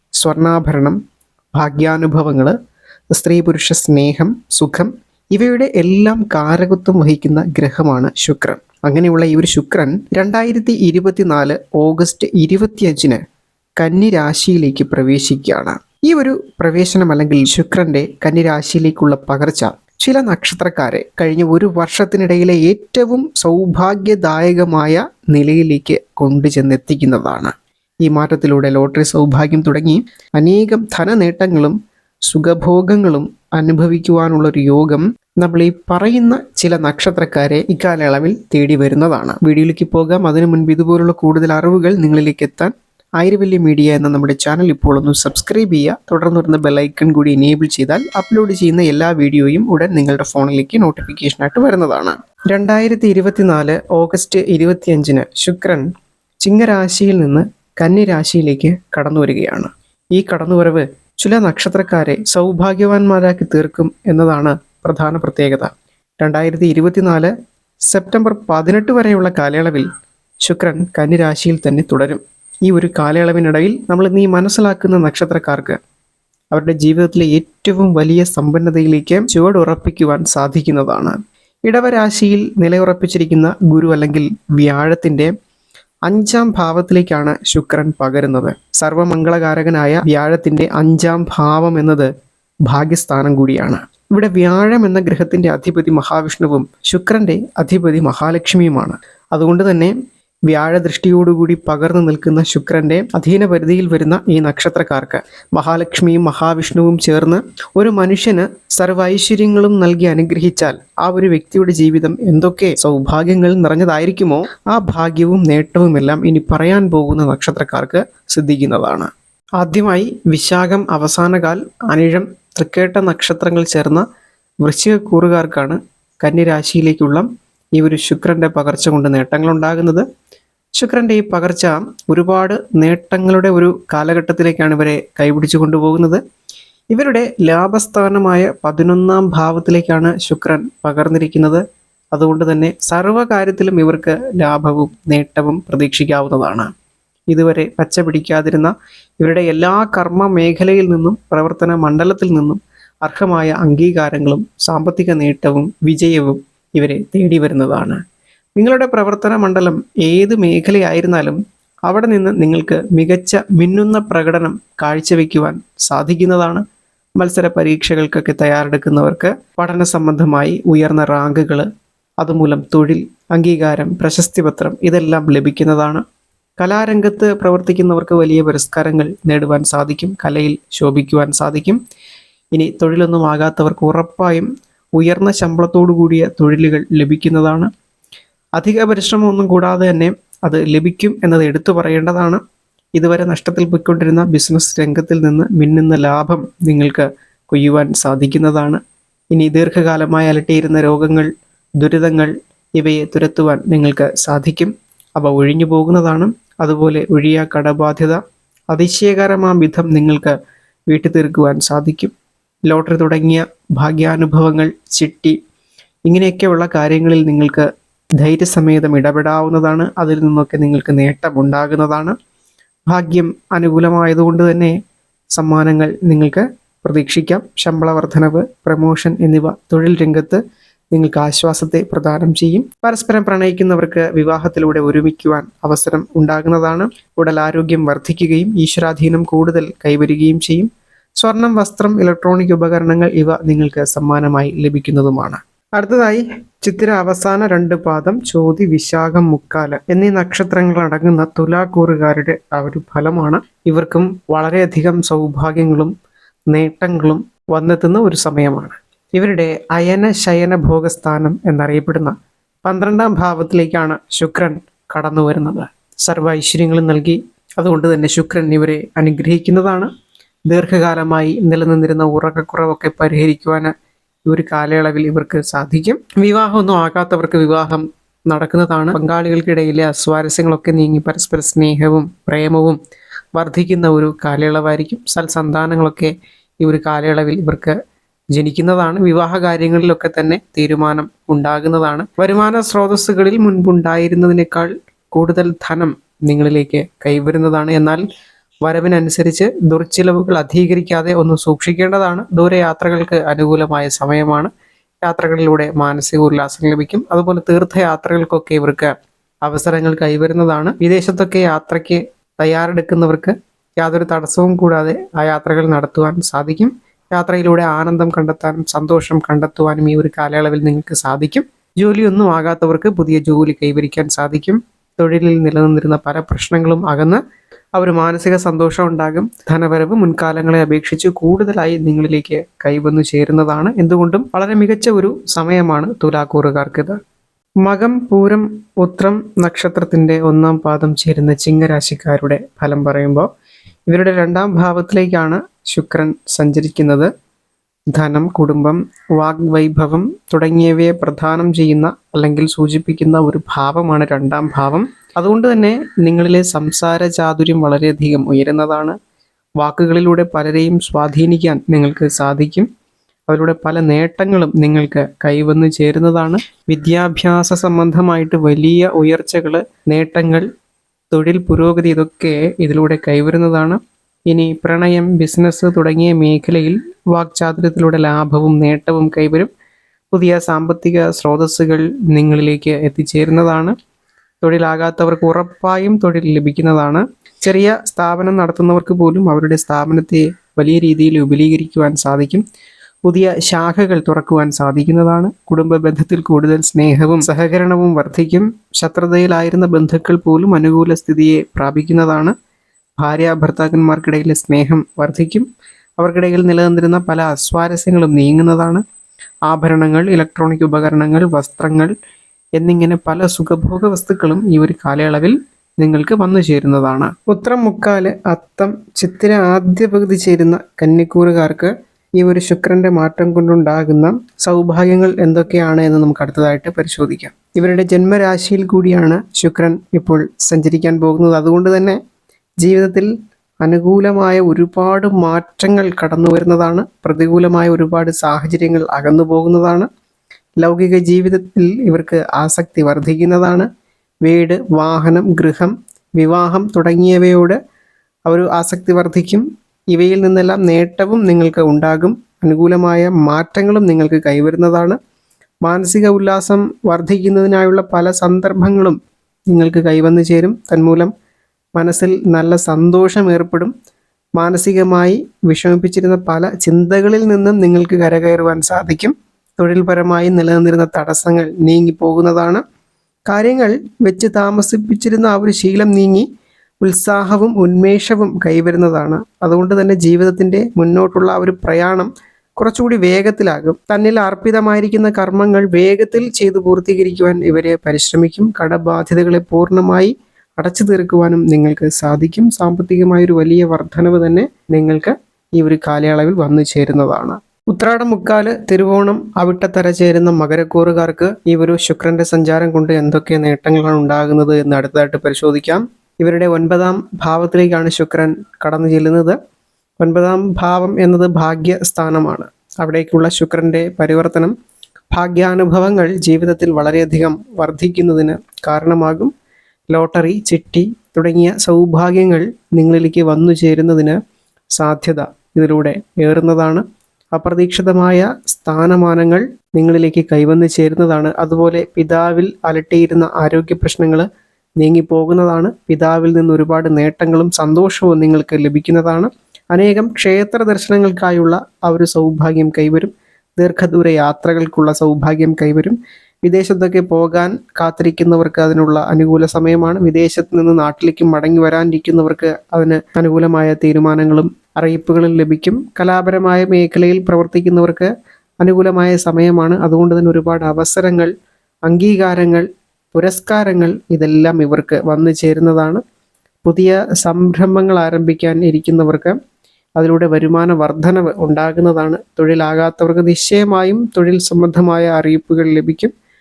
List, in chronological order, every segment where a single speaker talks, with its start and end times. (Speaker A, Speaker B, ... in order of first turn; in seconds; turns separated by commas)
Speaker A: 0.2-1.0, Speaker A: 1.6-2.5, Speaker A: 3.1-13.2, Speaker A: 13.8-27.5, Speaker A: 28.0-55.8, Speaker A: 56.4-67.3, Speaker A: 67.9-69.9, Speaker A: 70.4-75.8, Speaker A: 76.5-85.3, Speaker A: 86.1-92.1, Speaker A: 92.7-100.0, Speaker A: 100.5-124.0, Speaker A: 124.6-130.1, Speaker A: 130.8-136.2, Speaker A: 136.9-141.6, Speaker A: 142.1-146.7, Speaker A: 147.3-158.0, Speaker A: 158.6-166.6, Speaker A: 167.2-171.7, Speaker A: 172.2-176.0, Speaker A: 176.6-181.8, Speaker A: 182.5-187.7, Speaker A: 188.6-192.4, Speaker A: 193.0-198.8, Speaker A: 199.3-208.2, Speaker A: 208.7-210.3, Speaker A: 210.9-212.1, Speaker A: 212.7-215.3, Speaker A: 216.1-217.7, Speaker A: 218.2-222.2, Speaker A: 222.9-224.7, Speaker A: 225.3-230.4, Speaker A: 230.9-255.9, Speaker A: 256.5-269.9, Speaker A: 270.5-273.7, Speaker A: 274.3-282.8, Speaker A: 283.4-287.8, Speaker A: 288.3-298.0, Speaker A: 298.6-304.5, Speaker A: 305.0-308.9, Speaker A: 309.4-327.2, Speaker A: 327.8-337.0, Speaker A: 337.6-343.3, Speaker A: 343.9-347.1, Speaker A: 347.9-359.0, Speaker A: 359.6-362.7, Speaker A: 363.3-370.5, Speaker A: 371.1-379.5, Speaker A: 380.1-383.7, Speaker A: 384.4-392.4, Speaker A: 393.1-402.3, Speaker A: 403.0-405.5, Speaker A: 406.0-408.8, Speaker A: 409.5-411.9, Speaker A: 412.6-432.0, Speaker A: 432.6-433.1, Speaker A: 433.6-439.9, Speaker A: 440.6-443.7, Speaker A: 444.2-447.6, Speaker A: 448.3-455.0, Speaker A: 455.6-459.0, Speaker A: 459.5-461.1, Speaker A: 461.8-463.7, Speaker A: 464.4-472.6, Speaker A: 473.3-476.3, Speaker A: 476.8-509.4, Speaker A: 510.0-514.5, Speaker A: 515.1-519.3, Speaker A: 519.9-524.2, Speaker A: 524.8-526.8, Speaker A: 527.3-534.2, Speaker A: 534.8-558.1, Speaker A: 558.6-561.3, Speaker A: 561.9-566.0, Speaker A: 566.6-569.4, Speaker A: 570.0-576.1